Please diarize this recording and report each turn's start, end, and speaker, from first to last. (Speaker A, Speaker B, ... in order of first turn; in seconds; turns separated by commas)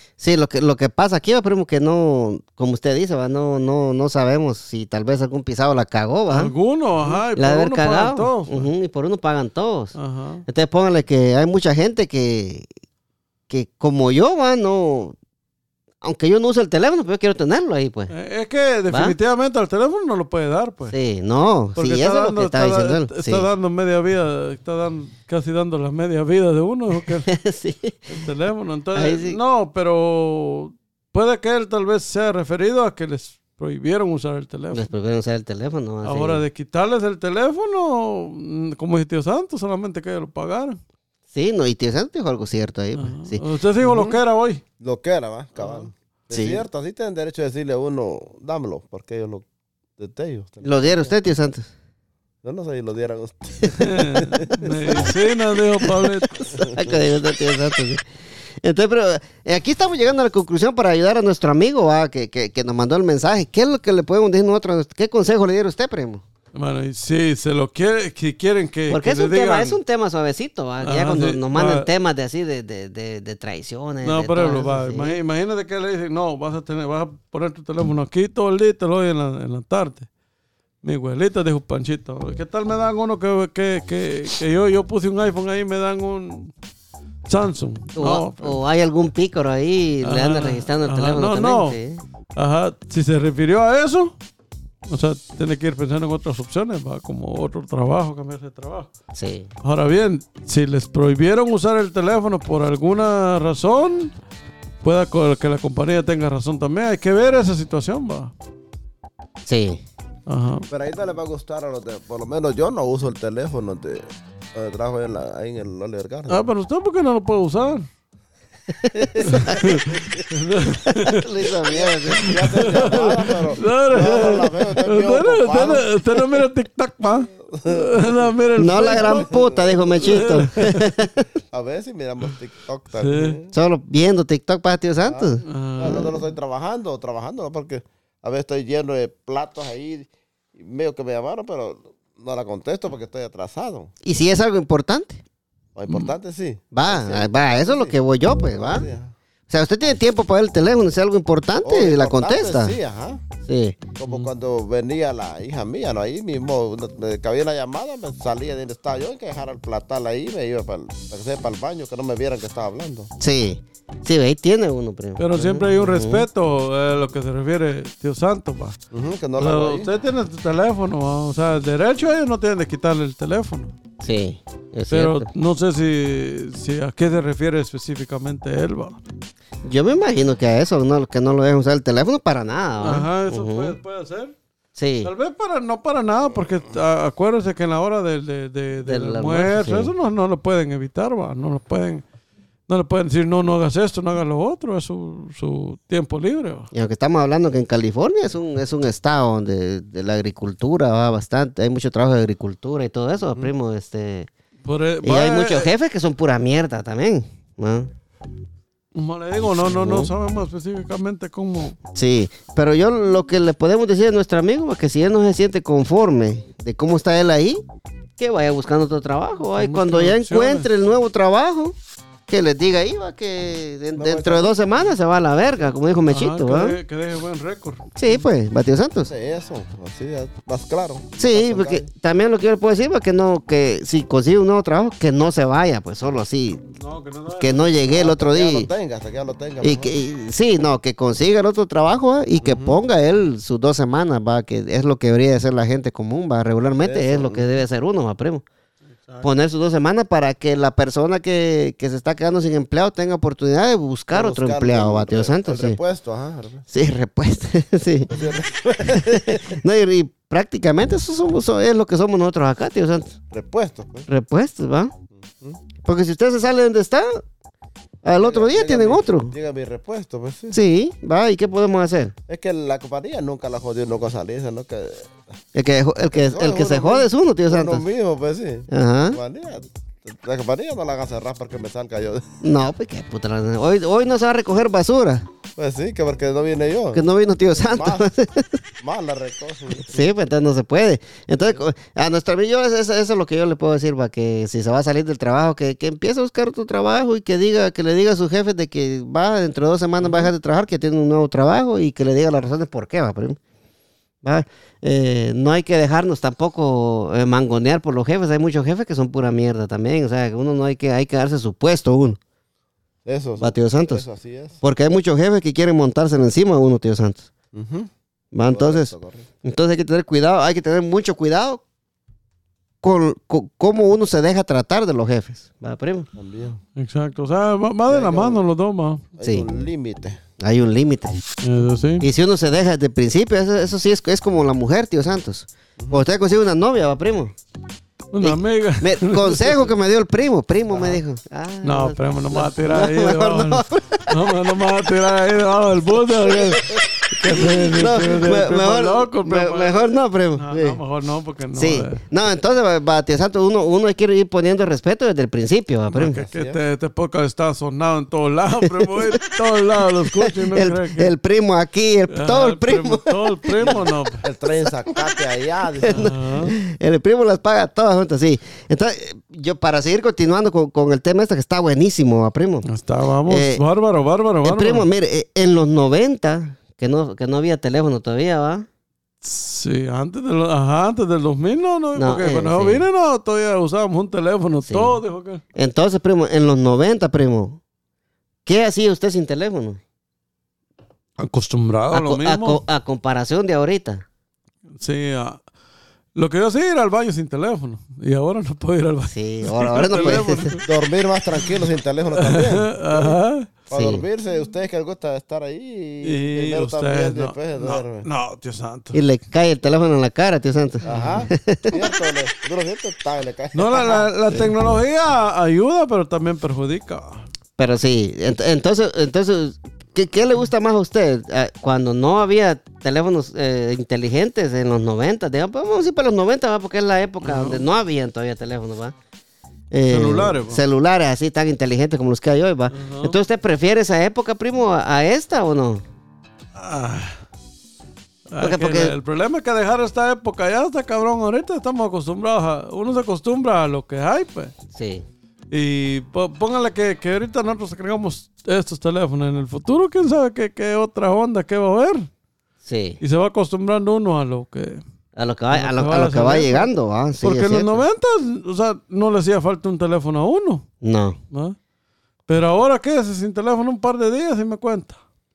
Speaker A: 0.2-6.5, Speaker B: 6.3-8.7, Speaker A: 7.3-9.9, Speaker B: 9.9-10.4, Speaker A: 10.5-12.7, Speaker A: 13.5-15.2, Speaker A: 16.0-18.1, Speaker B: 18.1-20.9, Speaker A: 18.9-19.1, Speaker A: 20.9-23.4, Speaker B: 21.8-27.3, Speaker A: 27.2-28.1, Speaker B: 28.1-34.9, Speaker A: 28.9-29.4, Speaker A: 34.7-36.4, Speaker B: 36.0-40.8, Speaker A: 41.3-43.4, Speaker B: 43.0-44.6, Speaker C: 43.8-44.2, Speaker C: 44.8-49.5, Speaker A: 46.3-46.6, Speaker C: 50.0-51.1, Speaker A: 50.6-51.7, Speaker C: 52.4-54.7, Speaker B: 53.7-56.6, Speaker A: 56.5-58.0, Speaker C: 56.6-57.0, Speaker A: 58.6-66.2, Speaker B: 66.5-69.8, Speaker A: 68.9-75.2, Speaker B: 70.8-71.9, Speaker B: 74.0-80.1, Speaker B: 80.8-86.5, Speaker B: 87.2-88.6, Speaker A: 88.0-92.0, Speaker B: 90.0-91.8, Speaker B: 92.4-94.1, Speaker B: 94.9-98.9, Speaker A: 99.1-99.5, Speaker B: 99.6-104.1, Speaker B: 104.8-108.3, Speaker A: 109.4-109.8, Speaker B: 110.3-110.6, Speaker C: 110.7-116.5, Speaker B: 116.3-117.9, Speaker A: 118.7-119.6, Speaker C: 119.0-120.2, Speaker B: 119.2-121.3, Speaker A: 120.9-123.0, Speaker C: 121.7-125.9, Speaker B: 122.1-129.3, Speaker C: 127.4-130.4, Speaker A: 128.6-131.2, Speaker B: 130.0-130.9, Speaker C: 131.5-133.5, Speaker B: 132.9-133.4, Speaker A: 133.5-135.4, Speaker C: 135.0-143.9, Speaker B: 135.4-136.2, Speaker A: 144.0-145.2, Speaker C: 145.8-147.9, Speaker A: 146.7-148.9, Speaker C: 148.5-149.1, Speaker A: 149.5-152.8, Speaker C: 151.6-153.2, Speaker A: 153.4-153.8, Speaker C: 153.9-163.1, Speaker A: 163.2-166.3, Speaker B: 165.2-168.8, Speaker C: 168.9-169.9, Speaker B: 169.4-173.7, Speaker A: 174.0-175.3, Speaker B: 174.9-179.0, Speaker A: 179.6-183.8, Speaker B: 182.8-184.3, Speaker A: 184.7-185.1, Speaker B: 185.0-192.0, Speaker A: 188.8-189.9, Speaker B: 192.7-196.7, Speaker A: 196.7-204.3, Speaker B: 204.6-205.7, Speaker A: 205.0-207.9, Speaker B: 208.9-211.8, Speaker A: 209.6-210.1, Speaker A: 211.9-217.6, Speaker A: 218.2-221.7, Speaker B: 219.6-220.7, Speaker A: 222.3-226.8, Speaker C: 223.9-224.5, Speaker B: 226.1-227.9, Speaker A: 227.9-229.1, Speaker C: 229.1-231.9, Speaker A: 231.2-236.6, Speaker B: 236.7-237.6, Speaker A: 237.4-238.7, Speaker C: 237.8-239.9, Speaker A: 239.6-248.4, Speaker C: 242.4-242.8, Speaker C: 246.8-247.5, Speaker A: 249.2-255.8, Speaker C: 254.1-256.6, Speaker A: 256.7-258.2, Speaker C: 258.1-259.6, Speaker A: 258.9-263.1, Speaker C: 263.3-264.1, Speaker A: 264.1-264.9, Speaker A: 265.8-267.2, Speaker A: 268.0-269.3, Speaker C: 268.1-270.6, Speaker A: 270.5-272.1, Speaker C: 272.3-275.1, Speaker A: 275.6-277.8, Speaker C: 276.1-282.2, Speaker A: 278.7-279.2, Speaker A: 282.4-285.2, Speaker C: 285.6-287.0, Speaker A: 286.9-288.6, Speaker C: 287.6-288.1, Speaker C: 288.8-290.1, Speaker A: 289.8-303.4, Speaker A: 304.2-312.2, Speaker C: 313.1-314.6, Speaker A: 313.4-314.0, Speaker A: 314.6-317.3, Speaker C: 317.5-317.9, Speaker A: 318.3-318.9, Speaker C: 318.4-319.3, Speaker A: 319.4-321.6, Speaker A: 322.8-326.1, Speaker C: 326.1-326.6, Speaker B: 326.8-329.1, Speaker C: 327.9-328.4, Speaker C: 329.2-330.2, Speaker A: 329.2-329.4, Speaker A: 330.4-331.2, Speaker B: 331.4-332.1, Speaker A: 332.0-337.3, Speaker B: 338.1-339.7, Speaker A: 338.2-344.2, Speaker B: 341.6-352.0, Speaker A: 347.3-350.8, Speaker A: 351.6-356.2, Speaker B: 355.9-361.1, Speaker C: 356.2-356.6, Speaker A: 358.7-359.2, Speaker A: 360.2-363.7, Speaker B: 362.1-364.2, Speaker C: 363.6-366.1, Speaker A: 365.8-372.7, Speaker B: 365.8-366.6, Speaker B: 372.6-374.9, Speaker A: 373.3-373.6, Speaker A: 374.4-378.7, Speaker B: 379.2-385.4, Speaker A: 381.9-382.8, Speaker A: 384.6-385.0, Speaker A: 385.6-387.6, Speaker A: 388.4-389.8, Speaker B: 391.2-392.6, Speaker A: 391.9-394.1, Speaker B: 394.8-395.4, Speaker B: 396.1-400.6, Speaker A: 399.1-400.6, Speaker C: 400.6-403.1, Speaker B: 402.2-403.5, Speaker C: 403.7-408.1, Speaker A: 403.7-404.1, Speaker B: 406.0-409.0, Speaker A: 408.9-411.8, Speaker B: 410.8-411.2, Speaker C: 410.8-414.0, Speaker B: 413.5-417.3, Speaker A: 417.6-428.9, Speaker B: 427.2-427.7, Speaker A: 429.7-435.8, Speaker B: 429.9-430.6, Speaker B: 432.7-433.2, Speaker B: 436.6-437.2, Speaker B: 438.3-444.5, Speaker A: 438.4-438.9, Speaker A: 444.7-445.1, Speaker B: 445.5-452.1, Speaker A: 452.6-453.0, Speaker B: 453.0-454.8, Speaker A: 455.1-457.8, Speaker B: 455.5-456.7, Speaker B: 457.2-460.6, Speaker A: 460.8-461.2, Speaker B: 461.3-461.6, Speaker B: 462.3-465.0